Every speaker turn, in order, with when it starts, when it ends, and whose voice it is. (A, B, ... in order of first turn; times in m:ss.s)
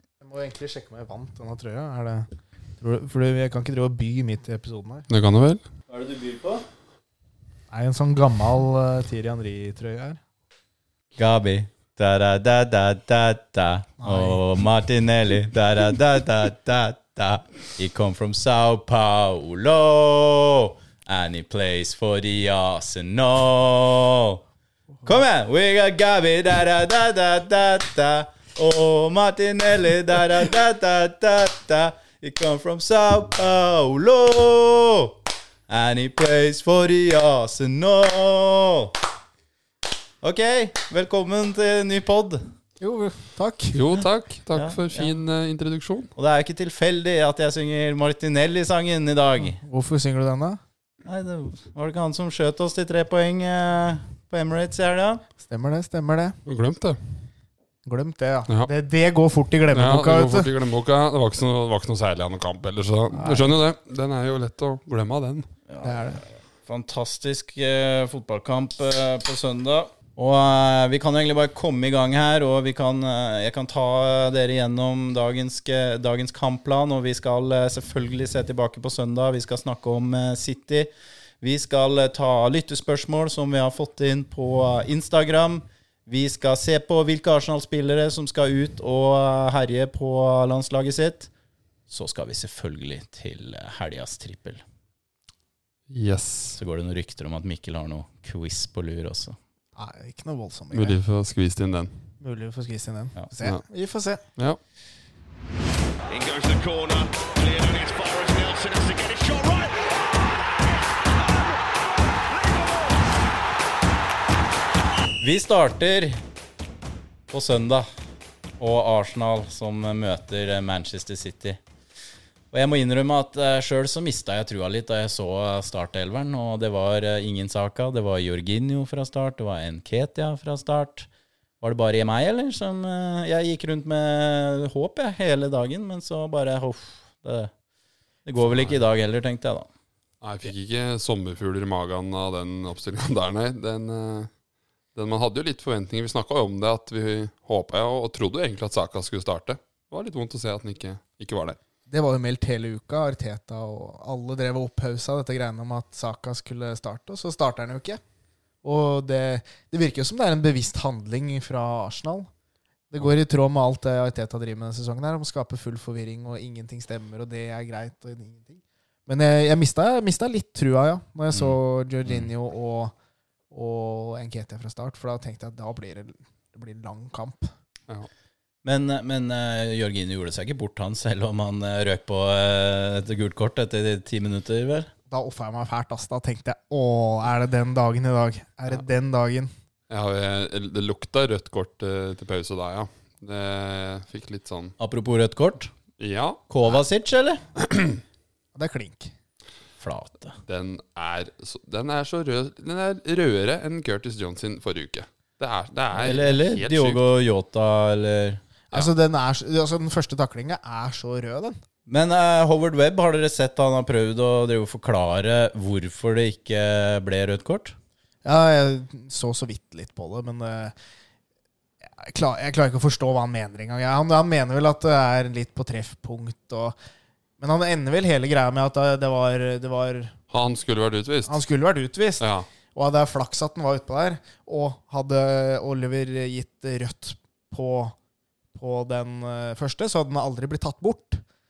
0:00.2-0:02.3 A
0:02.8-0:05.1 A
0:05.1-0:05.6 B
0:05.9-0:06.6 C
0:07.7-0:10.2 A
0:11.2-0:24.4 C
0:14.0-0:14.4 A
0:25.0-0:39.0 C
0:40.2-0:42.4 C
0:42.8-0:43.8 A
0:43.7-0:46.1 B
0:44.5-0:45.1 C
0:46.2-0:49.6 C
0:49.6-0:50.6 A
0:51.0-0:55.2 C
0:55.4-0:56.4 A
0:56.5-0:57.0 B
0:57.9-1:00.5 A
0:59.7-1:05.5 B
1:03.1-1:03.5 A
1:05.7-1:20.9 C
1:05.8-1:06.2 A
1:21.4-1:31.3 C
1:31.9-1:34.6 C
1:35.9-1:36.6 B
1:36.6-1:39.4 C
1:39.8-1:41.0 A
1:40.7-1:41.9 B
1:42.2-1:44.2 A
1:46.1-1:53.0 D
1:55.2-1:56.2 C
1:57.3-1:57.9 C
1:58.6-2:01.6 C
2:02.5-2:11.1 C
2:11.6-2:17.5 C
2:18.2-2:19.7 C
2:20.2-2:24.3 B
2:25.0-2:31.6 B
2:31.9-2:38.0 A
2:38.6-2:42.3 A
2:42.9-2:52.9 A
2:51.3-2:52.3 C
2:53.5-2:57.5 A
2:58.6-3:04.9 C
3:05.1-3:09.5 A
3:09.9-3:14.8 B
3:14.8-3:15.7 C
3:16.0-3:16.4 B
3:16.5-3:17.4 C
3:17.6-3:18.0 B
3:18.6-3:19.1 A
3:19.8-3:20.4 C
3:20.5-3:27.0 B
3:26.0-3:28.4 C
3:28.7-3:31.6 A
3:31.9-3:37.8 C
3:38.2-3:40.7 A
3:42.0-3:46.8 A
3:47.4-3:50.2 A
3:50.3-3:51.4 B
3:51.3-3:58.0 A
3:52.2-3:52.5 B
3:58.6-4:01.2 A